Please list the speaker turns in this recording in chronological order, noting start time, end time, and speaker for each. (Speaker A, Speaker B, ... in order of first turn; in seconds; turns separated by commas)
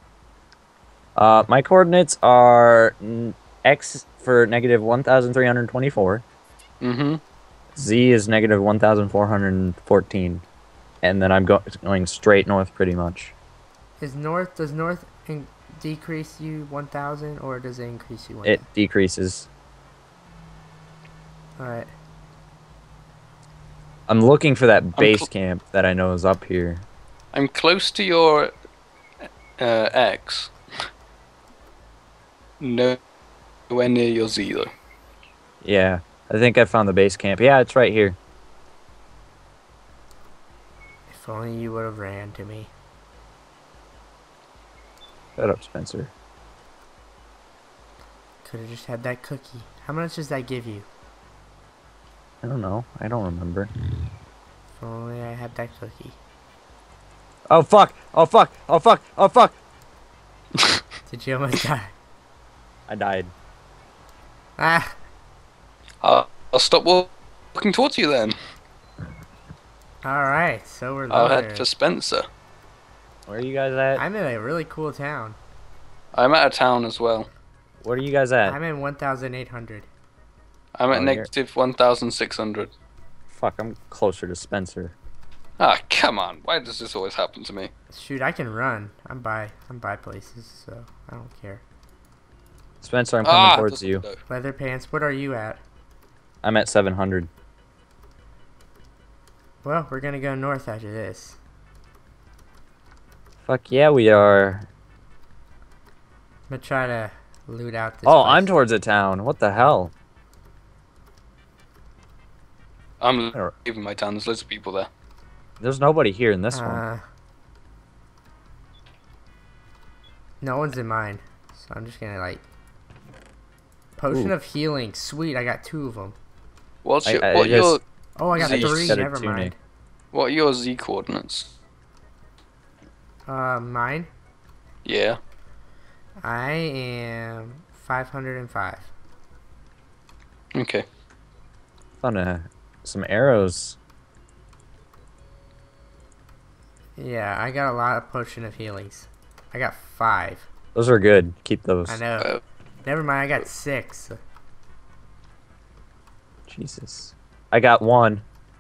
Speaker A: 1.2-6.2, Speaker B: 6.8-7.2, Speaker A: 7.8-10.4, Speaker A: 11.0-13.3, Speaker C: 14.0-18.7, Speaker A: 18.4-19.5, Speaker C: 21.6-21.9, Speaker A: 24.1-26.9, Speaker B: 25.0-25.3, Speaker B: 27.3-28.5, Speaker B: 29.6-30.5, Speaker B: 32.6-33.0, Speaker B: 33.7-34.7, Speaker A: 35.6-38.2, Speaker C: 41.1-42.7, Speaker A: 45.4-46.1, Speaker C: 48.4-50.9, Speaker A: 52.4-53.7, Speaker C: 54.8-56.2, Speaker A: 57.5-59.6, Speaker C: 61.1-61.9, Speaker A: 62.9-63.3, Speaker C: 64.6-64.9, Speaker B: 66.0-68.4, Speaker C: 70.0-71.7, Speaker B: 71.1-72.3, Speaker A: 73.3-74.0, Speaker C: 74.0-75.4, Speaker B: 76.1-77.3, Speaker A: 77.8-78.6, Speaker C: 78.5-79.9, Speaker B: 80.8-82.7, Speaker A: 80.9-81.3, Speaker A: 83.3-85.0, Speaker B: 85.6-87.7, Speaker C: 87.9-91.6, Speaker A: 92.8-94.0, Speaker B: 93.2-94.2, Speaker C: 94.3-95.6, Speaker A: 96.4-97.3, Speaker C: 99.6-101.4, Speaker A: 103.5-104.7, Speaker C: 106.5-108.5, Speaker A: 108.1-109.9, Speaker B: 113.0-114.9, Speaker A: 115.6-116.8, Speaker C: 116.5-117.0, Speaker C: 120.4-122.4, Speaker C: 124.0-126.2, Speaker B: 126.8-127.8, Speaker A: 127.0-127.8, Speaker C: 128.2-129.6, Speaker B: 128.3-129.0, Speaker A: 128.3-129.5, Speaker B: 130.1-131.5, Speaker C: 133.3-134.1, Speaker B: 134.8-135.2, Speaker C: 136.2-138.9, Speaker B: 140.6-140.8, Speaker A: 142.0-143.8, Speaker C: 147.0-150.5, Speaker A: 150.8-152.0, Speaker C: 151.9-154.2, Speaker A: 156.5-158.2